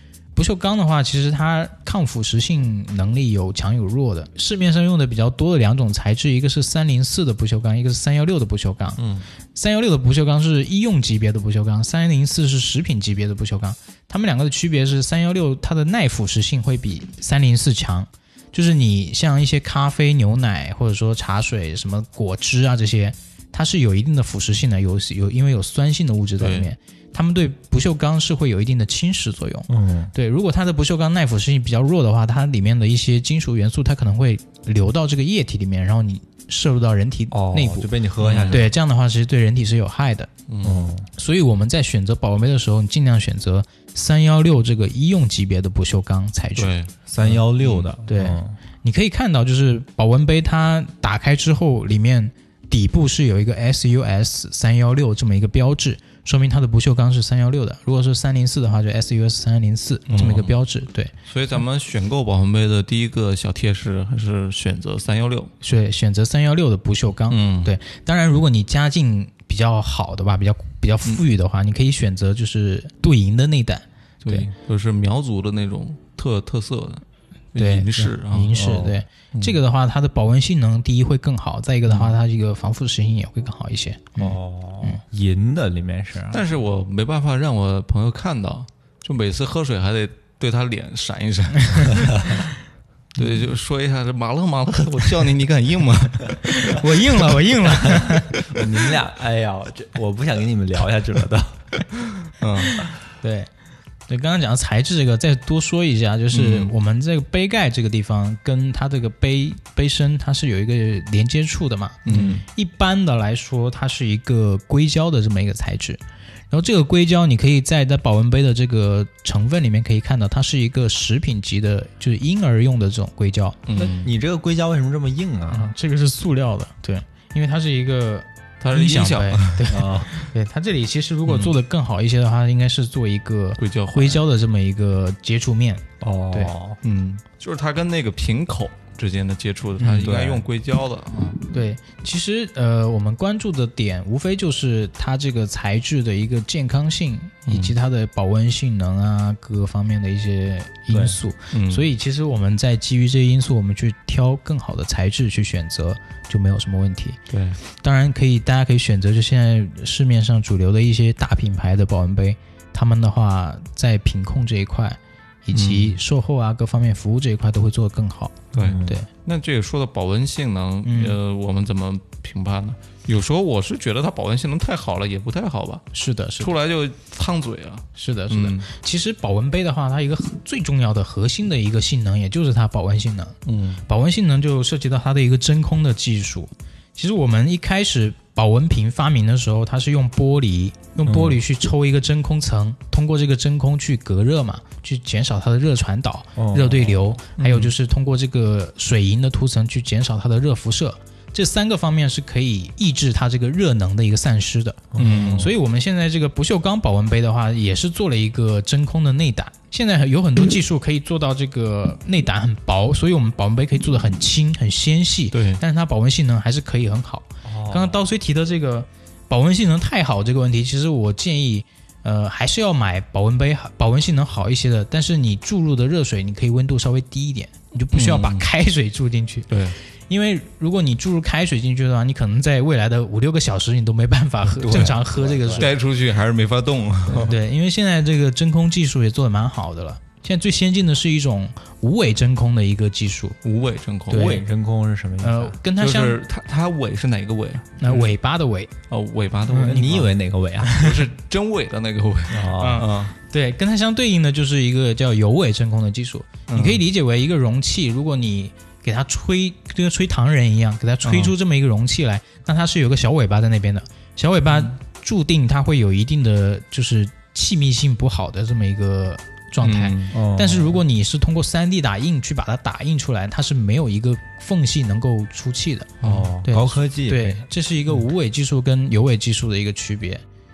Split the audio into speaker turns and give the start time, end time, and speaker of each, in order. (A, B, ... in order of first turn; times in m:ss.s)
0:00.3-0:09.0 A
0:09.0-0:09.2 B
0:09.5-0:37.9 A
0:26.4-0:26.7 B
0:29.7-0:30.1 C
0:37.3-0:38.7 C
0:38.2-0:38.7 B
0:38.5-0:40.3 A
0:40.5-0:40.9 B
0:40.6-0:41.1 C
0:41.1-0:46.8 A
0:46.6-0:47.9 B
0:47.1-0:48.6 C
0:48.1-1:01.1 A
1:00.1-1:00.5 B
1:01.3-1:05.5 B
1:05.6-1:14.5 A
1:07.3-1:07.7 B
1:14.2-1:18.6 B
1:17.6-1:25.0 A
1:18.5-1:19.0 C
1:19.3-1:19.6 B
1:21.9-1:22.1 B
1:24.2-1:26.4 C
1:26.3-1:32.4 B
1:33.2-1:36.7 B
1:36.4-1:38.3 A
1:38.5-1:41.6 C
1:42.4-1:42.8 B
1:43.2-1:43.5 A
1:44.1-2:03.9 A
1:46.3-1:46.7 B
1:52.0-1:52.4 B
1:52.1-1:52.4 C
2:03.7-2:04.1 B
2:03.8-2:05.7 C
2:05.5-2:16.5 A
2:08.6-2:09.7 B
2:09.7-2:10.1 C
2:11.2-2:11.6 B
2:13.6-2:14.2 B
2:16.0-2:16.8 C
2:16.8-2:21.4 B
2:19.8-2:20.1 A
2:20.0-2:20.4 C
2:21.5-2:49.1 A
2:27.5-2:27.7 B
2:30.9-2:31.2 C
2:31.5-2:31.9 B
2:37.3-2:37.6 B
2:45.5-2:46.0 B
2:48.5-2:55.9 B
2:48.6-2:49.0 C
2:50.8-2:51.2 A
2:55.9-2:56.5 A
2:56.4-2:58.7 B
2:58.0-3:49.5 A
3:03.4-3:03.8 B
3:11.0-3:11.4 C
3:16.4-3:17.1 C
3:17.4-3:17.7 B
3:24.9-3:25.5 C
3:25.0-3:25.5 B
3:35.3-3:35.6 B
3:37.4-3:38.0 C
3:47.9-3:48.5 B
3:49.5-3:49.8 B
3:50.1-3:55.7 A
3:54.6-3:55.7 C
3:54.7-3:54.9 B
3:55.5-3:57.4 B
3:57.1-4:03.4 A
4:03.4-4:04.4 B
4:04.1-4:04.4 A
4:04.1-4:05.5 C
4:05.2-4:06.2 A
4:05.8-4:08.1 B
4:07.8-4:08.7 A
4:08.9-4:10.1 B
4:09.5-4:09.9 A
4:09.6-4:10.8 C
4:10.6-4:10.9 A
4:10.7-4:13.1 B
4:12.3-4:12.8 C
4:12.6-4:40.2 A
4:16.5-4:16.8 B
4:21.0-4:21.3 B
4:29.6-4:30.1 B
4:30.1-4:30.8 C
4:36.0-4:36.3 B
4:36.0-4:37.4 C